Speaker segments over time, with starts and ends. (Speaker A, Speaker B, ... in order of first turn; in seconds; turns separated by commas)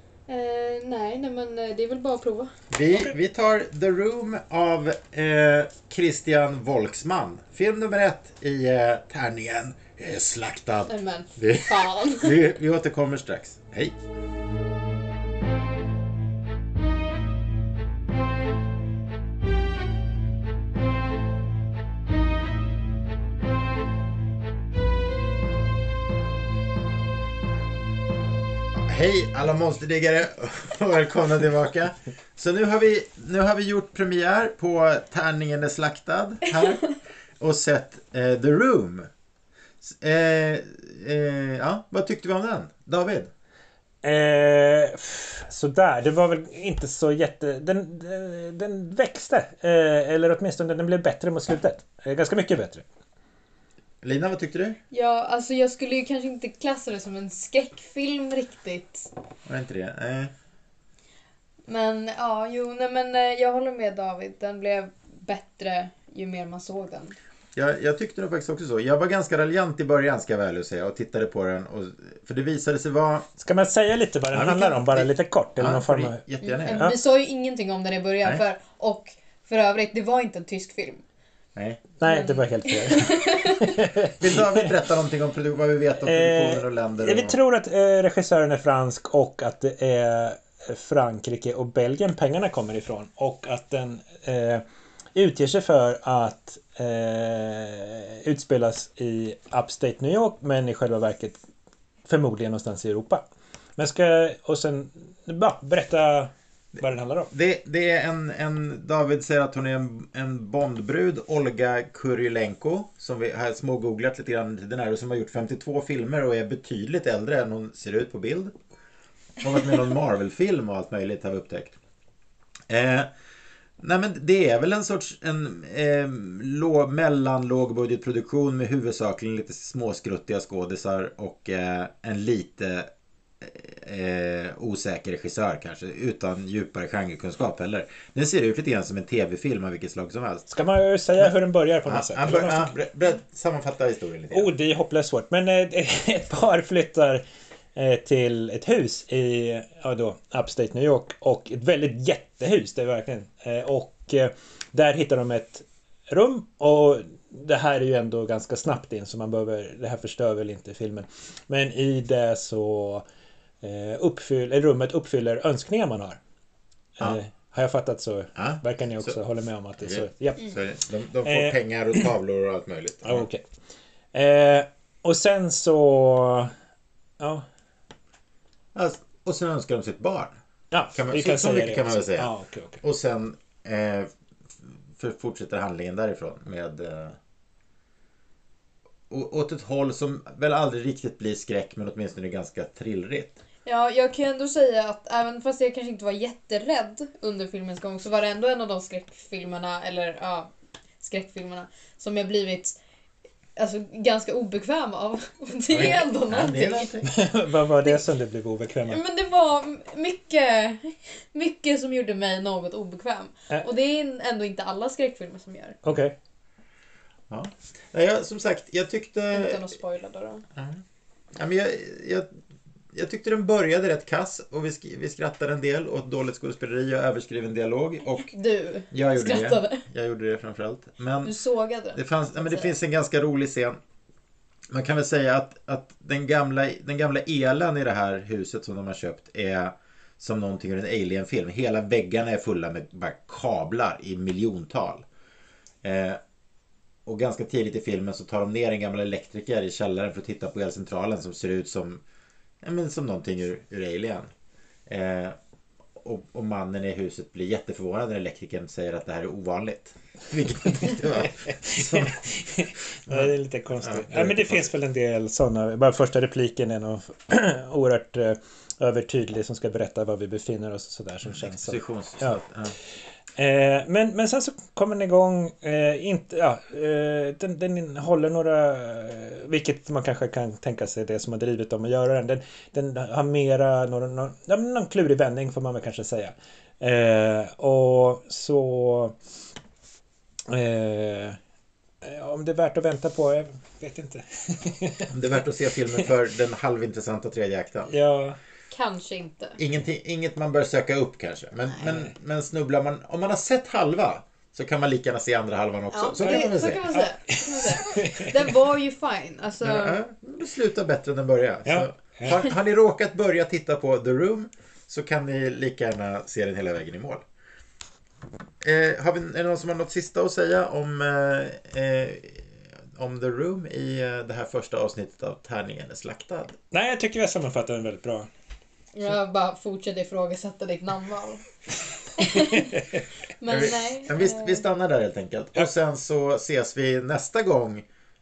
Speaker A: 0.3-2.5, Speaker B: 2.7-13.9, Speaker C: 2.9-3.1, Speaker A: 10.9-12.4, Speaker B: 28.8-39.1, Speaker B: 39.8-43.3, Speaker C: 44.0-52.8, Speaker B: 54.0-54.8, Speaker A: 54.9-59.1, Speaker B: 59.5-60.3, Speaker A: 61.7-67.1, Speaker B: 67.5-73.3, Speaker C: 73.4-76.9, Speaker B: 74.3-76.9, Speaker A: 76.4-81.0, Speaker B: 81.5-81.8, Speaker C: 82.0-84.7, Speaker A: 82.0-83.7, Speaker B: 84.2-87.3, Speaker C: 86.0-94.6, Speaker C: 95.1-101.4, Speaker C: 102.0-103.2, Speaker C: 103.8-107.3, Speaker B: 107.3-118.5, Speaker B: 119.4-121.8, Speaker B: 122.7-123.1, Speaker B: 123.8-132.9, Speaker B: 133.4-140.5, Speaker C: 140.5-142.8, Speaker B: 141.8-144.5, Speaker C: 144.3-147.2, Speaker C: 147.8-163.0, Speaker C: 163.6-166.2, Speaker C: 167.0-170.5, Speaker B: 168.3-169.2, Speaker B: 169.8-173.2, Speaker C: 171.2-172.1, Speaker C: 173.0-173.4, Speaker C: 174.1-176.5, Speaker C: 177.2-177.4, Speaker B: 178.7-180.3, Speaker C: 180.7-182.8, Speaker B: 180.9-182.3, Speaker B: 182.8-184.1, Speaker B: 185.0-187.2, Speaker B: 189.1-193.4, Speaker A: 193.6-200.5, Speaker A: 201.0-202.8, Speaker A: 203.6-206.9, Speaker B: 205.7-207.1, Speaker C: 207.0-209.0, Speaker A: 208.9-215.8, Speaker C: 215.8-216.1, Speaker B: 217.3-219.6, Speaker A: 219.3-220.4, Speaker B: 220.6-220.8, Speaker B: 221.3-222.3, Speaker B: 222.9-228.3, Speaker A: 228.2-229.8, Speaker B: 228.9-231.3, Speaker A: 231.2-232.7, Speaker B: 231.9-233.8, Speaker B: 234.7-245.0, Speaker B: 245.8-246.2, Speaker B: 247.1-252.0, Speaker B: 252.6-254.3, Speaker B: 254.9-255.3, Speaker B: 256.0-262.2, Speaker C: 261.1-272.4, Speaker B: 263.1-264.7, Speaker B: 271.2-272.8, Speaker C: 273.4-289.1, Speaker C: 290.5-291.4, Speaker C: 292.0-295.1, Speaker B: 295.1-297.9, Speaker C: 297.9-298.4, Speaker A: 298.7-299.6, Speaker B: 299.6-307.0, Speaker C: 301.8-302.1, Speaker A: 305.9-310.0, Speaker C: 306.9-308.5, Speaker B: 309.6-317.2, Speaker C: 311.6-312.4, Speaker B: 318.6-326.6, Speaker C: 326.7-328.3, Speaker A: 328.9-331.4, Speaker A: 332.2-332.7, Speaker C: 332.2-333.0, Speaker A: 333.4-334.6, Speaker B: 333.5-337.8